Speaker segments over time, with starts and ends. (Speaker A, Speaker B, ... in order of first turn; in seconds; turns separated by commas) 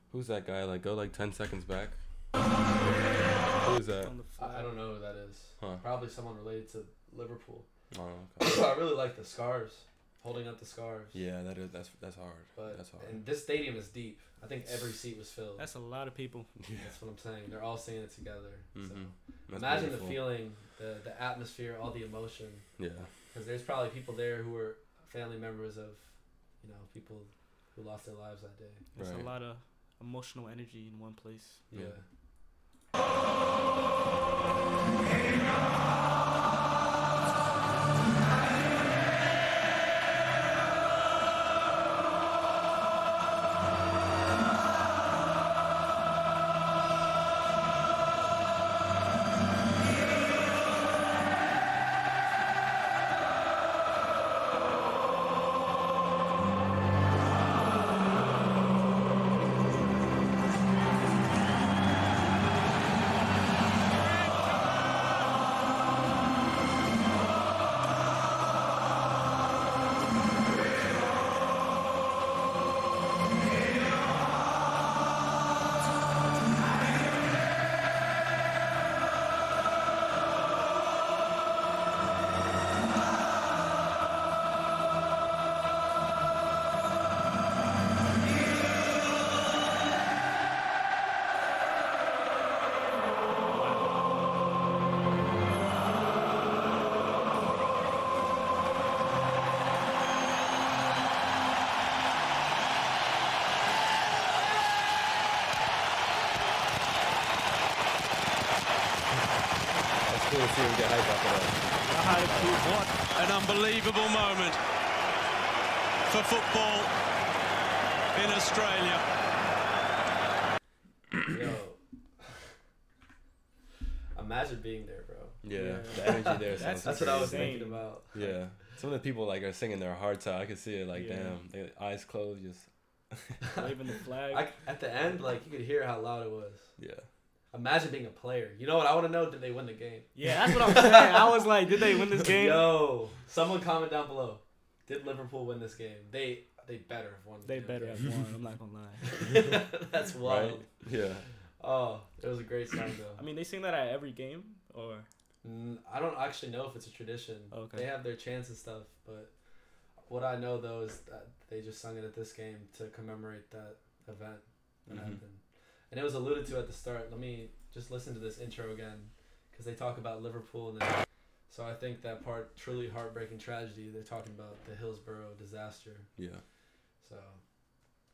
Speaker A: 0.1-2.1, Speaker A: 3.6-4.2, Speaker B: 3.8-4.7, Speaker C: 4.4-11.2, Speaker A: 5.6-5.8, Speaker A: 7.9-8.6, Speaker A: 11.1-13.2, Speaker C: 12.6-15.7, Speaker B: 15.6-16.6, Speaker A: 16.6-17.0, Speaker C: 16.8-28.9, Speaker A: 18.7-20.4, Speaker A: 22.8-23.1, Speaker B: 28.9-31.6, Speaker A: 29.0-29.3, Speaker C: 31.7-32.1, Speaker B: 93.5-94.1, Speaker A: 110.0-112.6, Speaker B: 111.8-112.8, Speaker D: 112.6-114.6, Speaker D: 116.0-117.0, Speaker D: 118.1-119.1, Speaker C: 121.3-122.3, Speaker C: 124.2-128.6, Speaker A: 125.4-133.4, Speaker B: 125.5-128.4, Speaker B: 130.9-131.4, Speaker B: 133.6-134.7, Speaker C: 134.3-137.0, Speaker A: 136.8-137.1, Speaker C: 137.5-141.0, Speaker B: 140.2-142.9, Speaker C: 142.3-148.2, Speaker B: 147.4-149.5, Speaker C: 149.1-153.2, Speaker A: 150.2-151.3, Speaker B: 153.2-155.1, Speaker C: 155.4-176.4, Speaker B: 157.5-157.9, Speaker A: 164.9-165.2, Speaker A: 176.2-176.4, Speaker C: 177.0-177.5